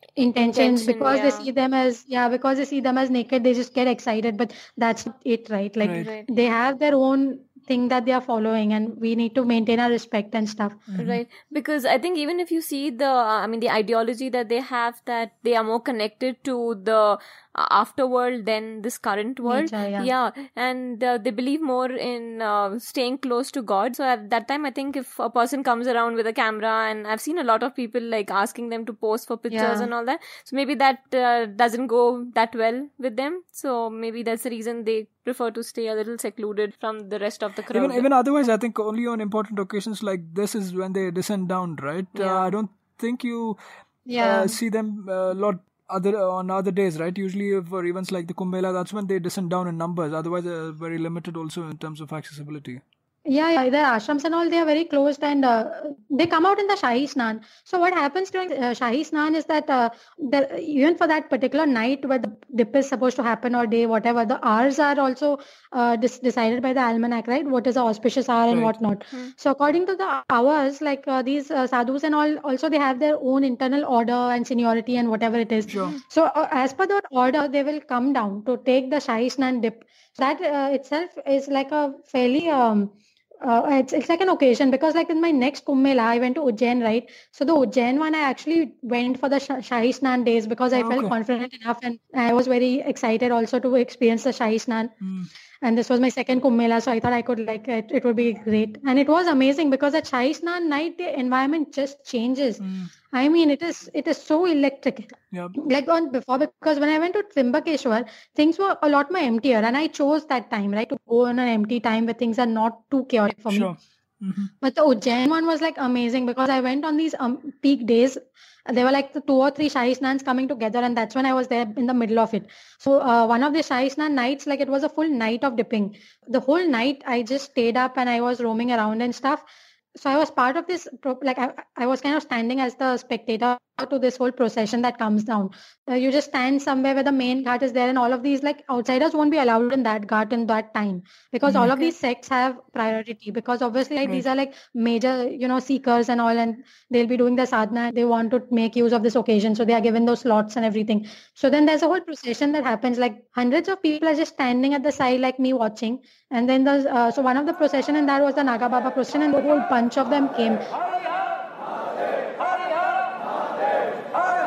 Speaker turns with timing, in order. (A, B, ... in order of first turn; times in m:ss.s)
0:00.2-0:10.8 A
0:00.4-0:01.5 B
0:05.8-0:06.1 C
0:05.9-0:06.3 B
0:10.9-0:11.2 C
0:11.0-0:38.0 B
0:19.4-0:20.1 A
0:29.5-0:29.9 A
0:37.7-0:43.6 C
0:42.2-0:42.5 B
0:44.1-0:44.6 A
0:44.2-0:52.8 C
0:53.3-1:34.9 A
1:08.5-1:08.7 C
1:15.7-1:16.0 C
1:30.7-1:31.1 C
1:35.0-1:35.3 C
1:35.6-1:53.7 A
1:42.6-1:42.9 C
1:53.5-1:54.5 C
1:54.6-2:09.4 A
2:10.0-2:40.6 A
2:21.5-2:21.7 C